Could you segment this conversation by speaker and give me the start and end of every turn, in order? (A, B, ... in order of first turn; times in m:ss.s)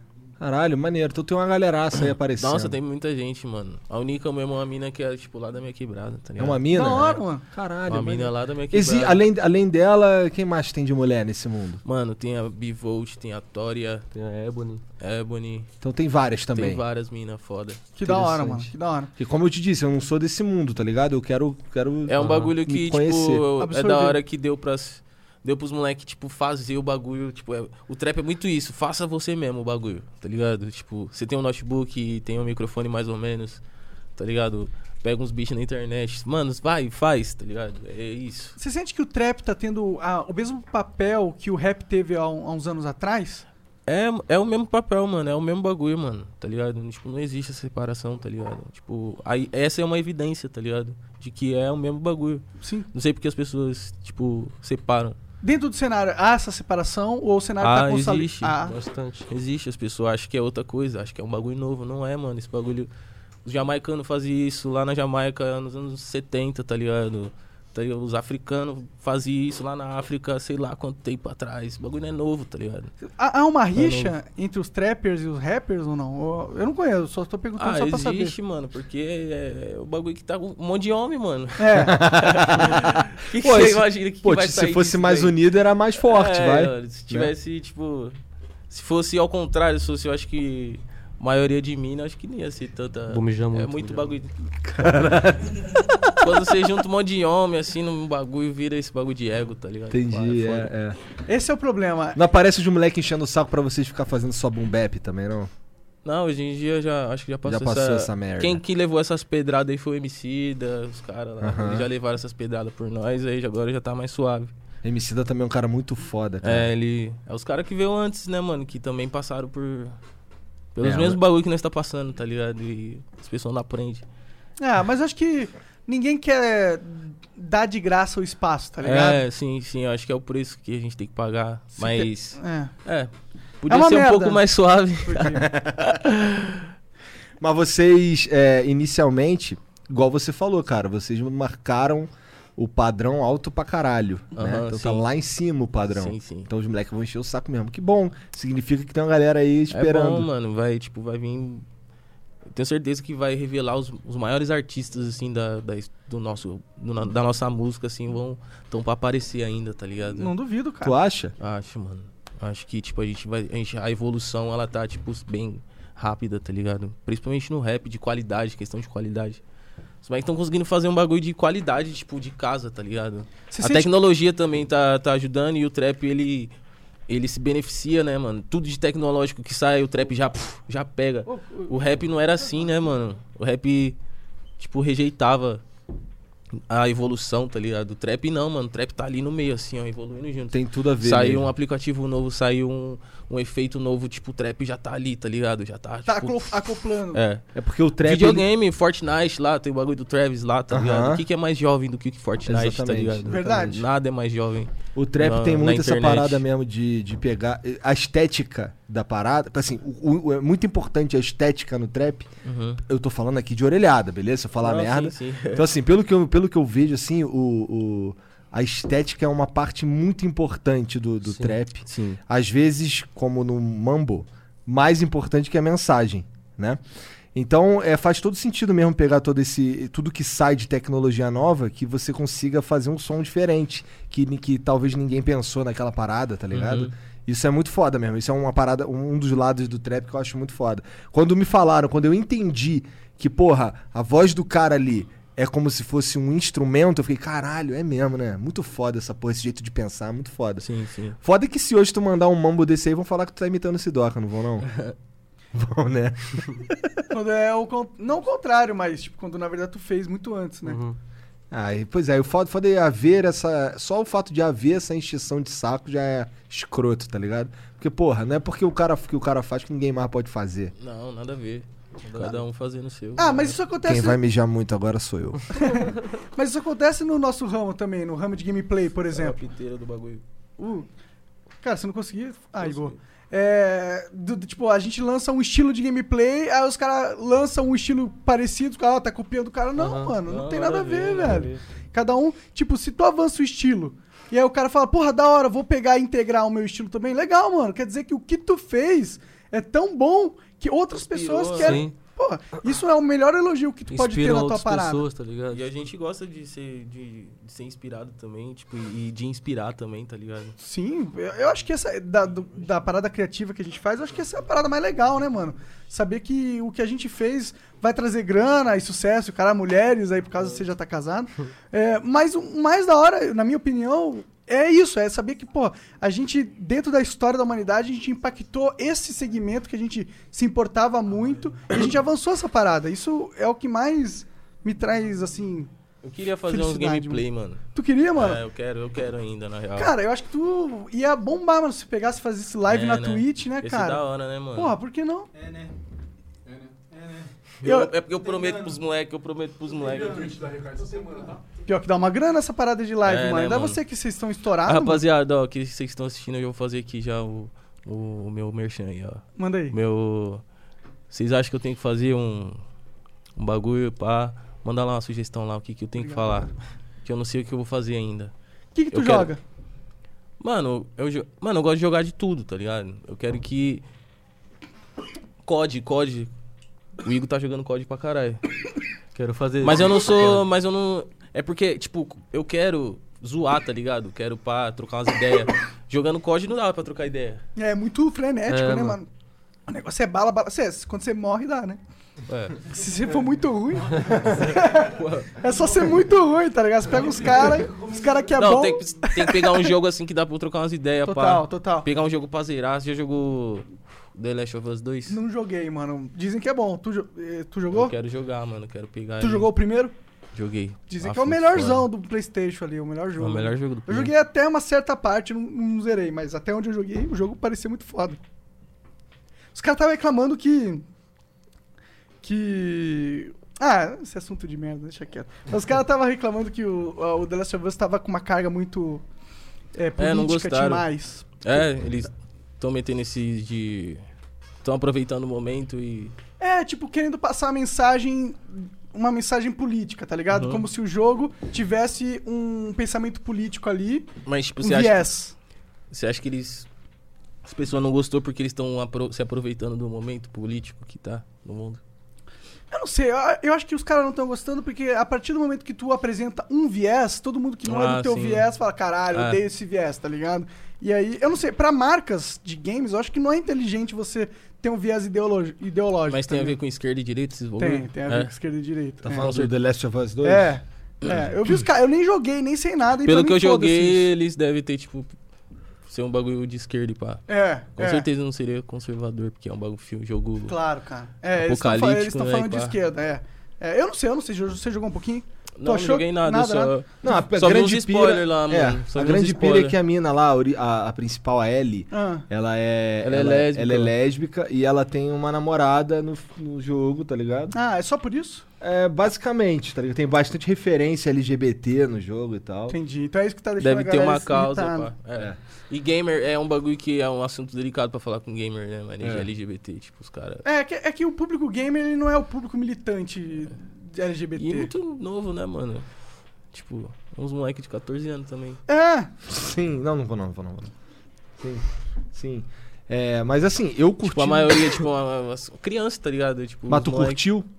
0:00.4-0:02.8 A
0:02.4-0:07.1 B
0:06.4-0:11.8 A
0:06.7-0:07.4 C
0:07.9-0:09.2 B
0:11.8-0:14.1 B
0:14.1-0:14.8 D
0:15.0-0:15.7 B
0:15.8-0:16.8 A
0:16.6-0:17.8 B
0:18.0-0:19.1 C
0:18.0-0:23.5 A
0:22.1-0:33.6 B
0:22.2-0:22.5 D
0:23.6-0:24.2 C
0:34.2-0:38.6 B
0:38.6-0:43.5 C
0:43.9-0:55.2 B
0:52.6-0:52.9 C
0:55.4-0:58.8 C
0:57.6-0:58.6 B
0:58.6-0:59.3 D
0:59.3-1:02.9 B
1:03.4-1:12.9 B
1:13.0-1:18.4 C
1:13.8-1:14.1 B
1:17.6-1:25.4 B
1:21.6-1:22.0 C
1:21.8-1:27.3 A
1:26.0-1:28.2 B
1:28.7-1:34.3 B
1:33.1-1:34.1 D
1:34.6-1:36.5 A
1:36.2-1:40.7 B
1:39.9-1:41.0 A
1:41.3-1:42.2 C
1:42.2-1:45.5 A
1:46.0-1:54.5 B
1:47.4-1:48.6 A
1:51.4-1:51.9 A
1:54.8-1:56.7 A
1:56.4-2:00.0 B
2:00.8-2:04.0 B
2:00.8-2:01.2 A
2:04.6-2:09.2 C
2:08.8-2:13.1 B
2:11.8-2:12.7 C
2:13.6-2:16.7 B
2:13.7-2:14.4 C
2:15.0-2:15.5 C
2:15.2-2:16.0 A
2:17.4-2:30.3 A
2:24.4-2:25.1 B
2:26.0-2:26.5 B
2:29.7-2:31.6 B
2:32.5-2:40.3 B
2:40.1-2:41.0 C
2:40.8-2:41.4 A
2:41.4-2:49.4 B
2:50.0-2:56.5 B
2:53.5-2:53.9 C
2:57.1-3:04.0 B
3:01.3-3:01.9 C
3:04.6-3:05.6 B
3:06.7-3:17.4 B
3:10.5-3:11.5 A
3:16.1-3:17.2 C
3:17.6-3:18.5 A
3:18.0-3:26.4 B
3:20.7-3:21.2 A
3:22.4-3:23.4 A
3:23.3-3:23.9 C
3:25.0-3:32.3 A
3:32.4-3:32.8 B
3:32.8-3:46.8 A
3:34.6-3:35.7 B
3:41.3-3:42.2 B
3:47.4-4:10.6 A
3:56.5-3:56.9 B
4:10.6-4:11.2 B
4:11.2-4:14.7 A
4:14.7-4:14.9 B
4:15.5-4:17.0 A
4:17.1-4:20.8 C
4:20.6-4:21.0 D
4:21.5-4:30.7 A
4:30.8-4:33.6 B
4:32.1-4:32.4 D
4:33.2-4:34.2 C
4:33.8-4:35.6 A
4:35.5-4:39.4 C
4:39.1-4:40.2 B
4:40.6-4:40.9 C
4:41.6-5:05.0 C
4:42.6-4:42.9 B
4:49.8-4:50.2 D
4:50.2-4:51.6 B
5:00.9-5:01.8 B
5:01.6-5:02.0 D
5:03.9-5:05.6 D
5:05.5-5:10.6 B
5:10.6-5:35.7 C
5:36.0-5:37.6 B
5:36.5-5:37.2 C
5:37.8-5:38.4 C
5:38.2-5:39.9 B
5:39.8-5:44.0 C
5:42.7-5:44.8 B
5:44.6-5:45.3 C
5:46.5-5:47.3 E
5:47.6-5:50.3 B
5:47.6-5:47.9 C
5:49.8-5:51.5 E
5:51.7-5:55.0 C
5:53.0-5:53.8 B
5:54.6-6:00.4 B
5:59.4-5:59.8 C
6:01.1-6:02.6 B
6:03.4-6:06.5 B
6:06.0-6:06.5 C
6:07.0-6:08.3 B
6:08.8-6:09.4 C
6:08.9-6:09.3 B
6:10.4-6:13.8 B
6:15.4-6:16.3 B
6:17.0-6:18.4 B
6:19.2-6:20.4 D
6:19.6-6:27.4 B
6:27.6-6:29.1 C
6:28.5-6:29.0 D
6:29.7-6:31.8 C
6:32.6-6:39.7 C
6:34.1-6:35.4 B
6:38.3-6:45.2 B
6:41.0-6:41.9 C
6:45.1-6:47.9 C
6:47.7-6:49.5 B
6:49.2-6:49.9 C
6:50.4-6:51.9 B
6:50.9-6:58.2 C
6:53.2-6:54.1 B
6:59.6-7:00.8 C
7:02.2-7:09.0 C
7:09.8-7:11.4 C
7:10.0-7:10.9 B
7:11.4-7:14.0 B
7:14.6-7:16.2 B
7:16.4-7:25.3 C
7:20.3-7:20.7 B
7:24.3-7:25.1 B
7:25.9-7:26.7 B
7:27.4-7:31.8 B
7:32.7-7:46.6 C
7:37.6-7:38.5 B
7:39.1-7:39.4 B
7:46.1-7:48.3 B
7:47.6-7:49.3 C
7:49.0-7:50.6 A
7:49.1-7:49.5 B
7:50.2-7:54.1 C
7:51.1-7:51.5 B
7:53.0-7:55.1 B
7:55.9-7:57.2 B
7:57.3-7:58.1 C
7:57.8-8:00.6 B
8:00.5-8:06.7 C
8:01.3-8:02.8 B
8:05.6-8:09.8 B
8:07.0-8:17.6 A
8:11.9-8:12.2 C
8:13.0-8:13.9 B
8:17.5-8:18.4 C
8:18.6-8:22.8 A
8:22.7-8:24.9 C
8:23.6-8:30.4 B
8:29.0-8:29.3 A
8:30.4-8:34.7 C
8:34.4-8:35.9 B
8:36.5-8:38.6 B
8:38.7-8:39.1 C
8:39.3-8:40.7 A
8:41.4-8:44.8 A
8:44.0-8:47.2 B
8:46.7-8:47.5 A